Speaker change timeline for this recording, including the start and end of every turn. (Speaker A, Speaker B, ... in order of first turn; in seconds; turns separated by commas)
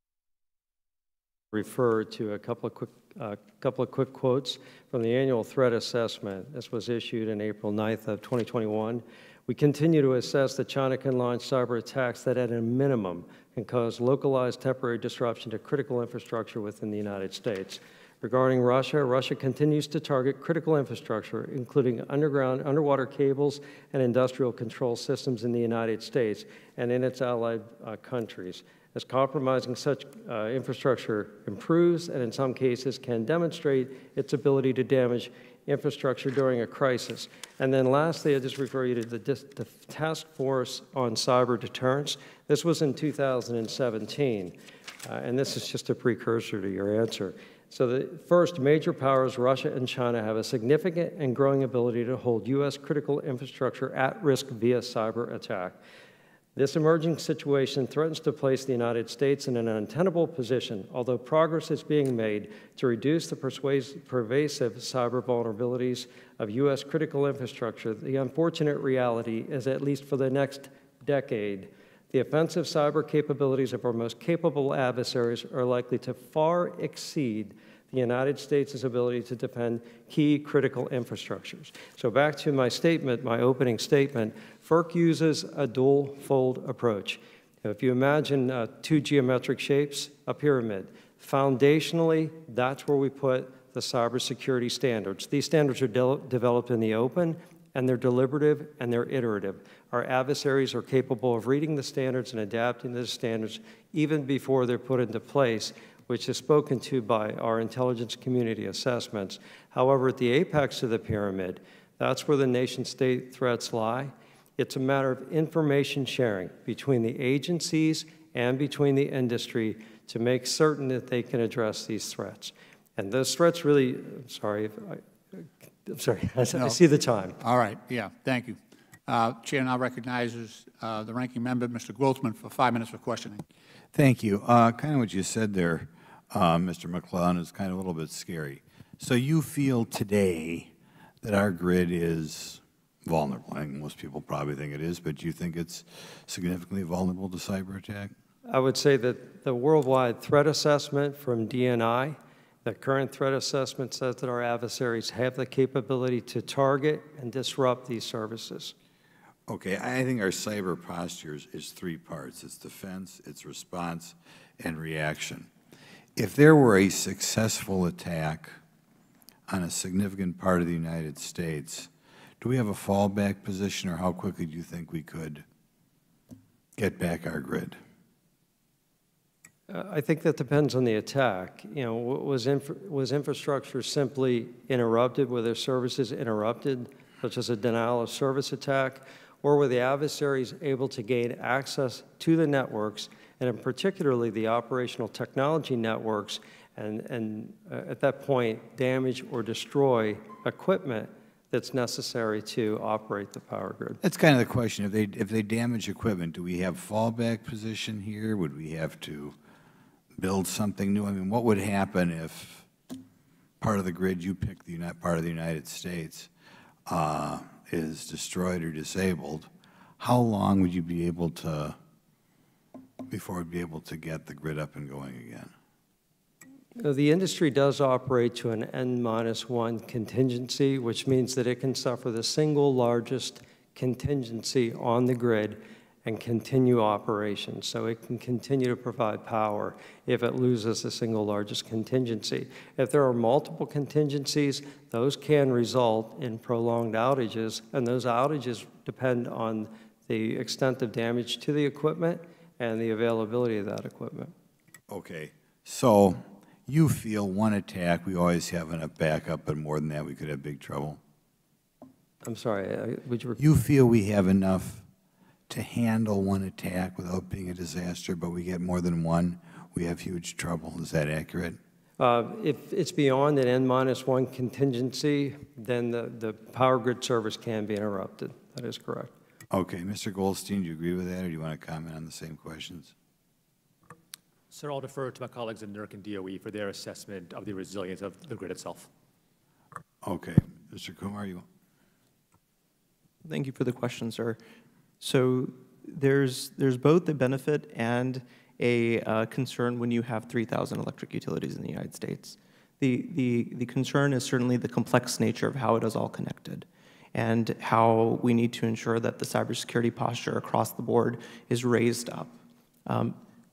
Speaker A: 1.5-44.5, Speaker A: 45.1-55.8, Speaker A: 56.6-127.4, Speaker B: 126.5-126.8, Speaker B: 127.4-133.4, Speaker C: 133.9-140.7, Speaker C: 141.2-148.1, Speaker A: 148.5-158.7, Speaker C: 159.5-165.5, Speaker C: 166.2-168.5, Speaker C: 169.5-171.9, Speaker C: 172.4-175.4, Speaker C: 176.8-177.8, Speaker A: 179.7-204.0, Speaker C: 204.0-209.4, Speaker C: 210.2-212.7, Speaker C: 213.6-216.3, Speaker C: 216.9-219.5, Speaker C: 220.0-221.8, Speaker C: 223.1-225.5, Speaker A: 226.8-254.3, Speaker C: 254.9-261.0, Speaker A: 262.2-263.4, Speaker C: 263.4-264.8, Speaker C: 265.5-271.6, Speaker A: 272.0-279.1, Speaker C: 279.5-282.9, Speaker D: 284.5-288.9, Speaker C: 290.0-291.4, Speaker E: 293.2-294.4, Speaker E: 295.0-312.3, Speaker E: 312.9-313.2